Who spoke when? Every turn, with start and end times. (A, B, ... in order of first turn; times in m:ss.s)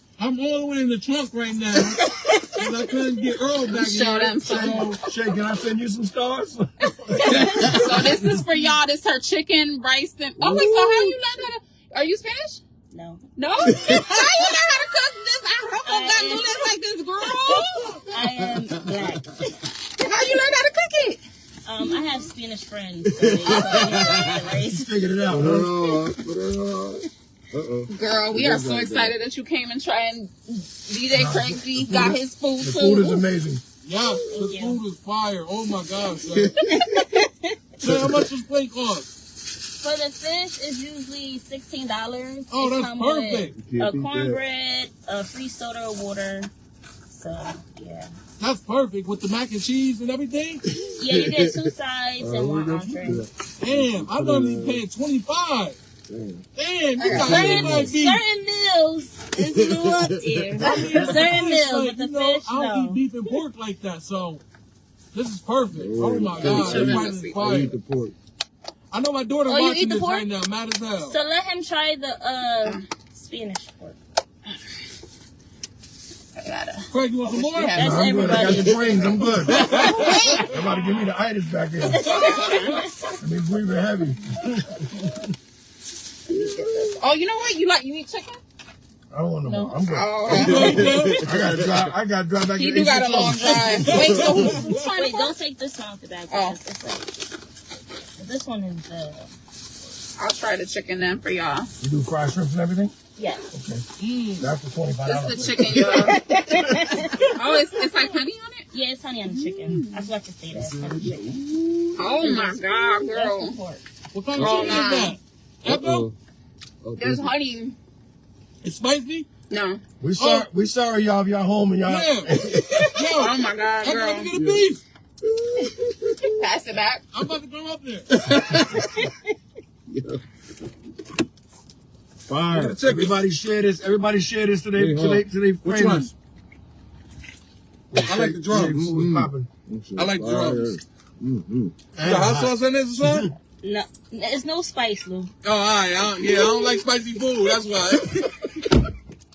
0:00.2-0:05.0 A
0:03.7-0:04.9 B
0:04.4-0:08.1 C
0:07.2-0:07.8 D
0:07.6-0:12.6 B
0:10.4-0:11.2 E
0:12.9-0:13.2 D
0:13.4-0:18.0 B
0:13.6-0:14.3 E
0:15.8-0:16.7 D
0:17.4-0:19.5 D
0:20.0-0:21.2 B
0:21.6-0:24.9 D
0:23.0-0:24.4 E
0:24.5-0:25.7 C
0:25.3-0:29.2 E
0:27.9-0:33.2 B
0:31.1-0:33.6 C
0:33.8-0:36.5 A
0:34.3-0:34.8 D
0:36.3-0:37.0 E
0:36.6-0:37.3 D
0:37.8-0:38.3 E
0:37.8-0:39.1 A
0:39.7-0:46.5 D
0:42.5-0:43.5 A
0:43.5-0:44.4 E
0:47.1-0:48.1 D
0:48.4-0:50.6 A
0:50.7-0:54.8 E
0:50.9-0:53.2 D
0:53.6-0:55.8 A
0:56.1-0:56.4 E
0:56.6-0:58.2 A
0:57.0-1:03.0 D
0:57.0-0:57.9 E
0:59.4-1:01.1 E
1:00.6-1:04.4 A
1:00.6-1:00.9 B
1:05.1-1:07.8 A
1:05.7-1:08.1 E
1:06.4-1:07.5 B
1:08.9-1:11.2 A
1:09.5-1:10.2 B
1:11.0-1:14.0 D
1:16.4-1:18.6 B
1:16.9-1:17.8 A
1:17.7-1:18.9 D
1:17.8-1:22.4 C
1:19.5-1:20.3 D
1:19.7-1:20.5 B
1:21.8-1:22.9 D
1:22.2-1:22.8 B
1:23.2-1:25.2 C
1:26.3-1:27.0 E
1:26.4-1:28.4 B
1:29.1-1:34.5 C
1:29.4-1:29.7 D
1:29.7-1:30.8 B
1:30.3-1:31.9 E
1:30.3-1:31.2 A
1:30.4-1:31.1 D
1:32.5-1:35.3 B
1:33.8-1:34.8 A
1:34.0-1:34.3 E
1:34.7-1:37.3 D
1:36.3-1:36.6 B
1:38.2-1:39.3 D
1:40.2-1:41.7 B
1:41.8-1:42.9 C
1:43.2-1:43.4 D
1:43.5-1:43.8 C
1:44.0-1:44.5 A
1:44.4-1:46.1 C
1:45.0-1:46.2 B
1:45.9-1:47.6 D
1:47.3-1:48.6 B
1:48.7-1:51.4 D
1:49.2-1:50.1 B
1:50.5-1:52.2 E
1:52.0-1:53.5 B
1:52.0-1:53.8 D
1:54.1-1:56.1 A
1:54.3-1:54.9 E
1:54.4-1:55.2 B
1:55.6-1:56.1 E
1:56.8-1:57.3 E
1:57.0-1:57.8 B
1:58.6-1:59.3 A
1:59.5-1:59.8 B
2:00.0-2:03.0 C
2:00.2-2:00.5 A
2:01.8-2:04.8 A
2:03.1-2:04.3 B
2:04.3-2:06.3 E
2:06.4-2:07.0 B
2:07.1-2:08.1 A
2:08.2-2:09.0 E
2:09.9-2:10.2 E
2:12.3-2:16.1 C
2:12.3-2:12.8 E
2:12.5-2:13.2 A
2:14.8-2:15.2 E
2:15.6-2:16.1 A
2:17.9-2:19.5 C
2:18.0-2:18.8 A
2:18.6-2:21.9 E
2:19.9-2:20.7 A
2:22.0-2:23.3 C
2:22.0-2:23.3 A
2:23.6-2:25.3 D
2:25.4-2:28.5 A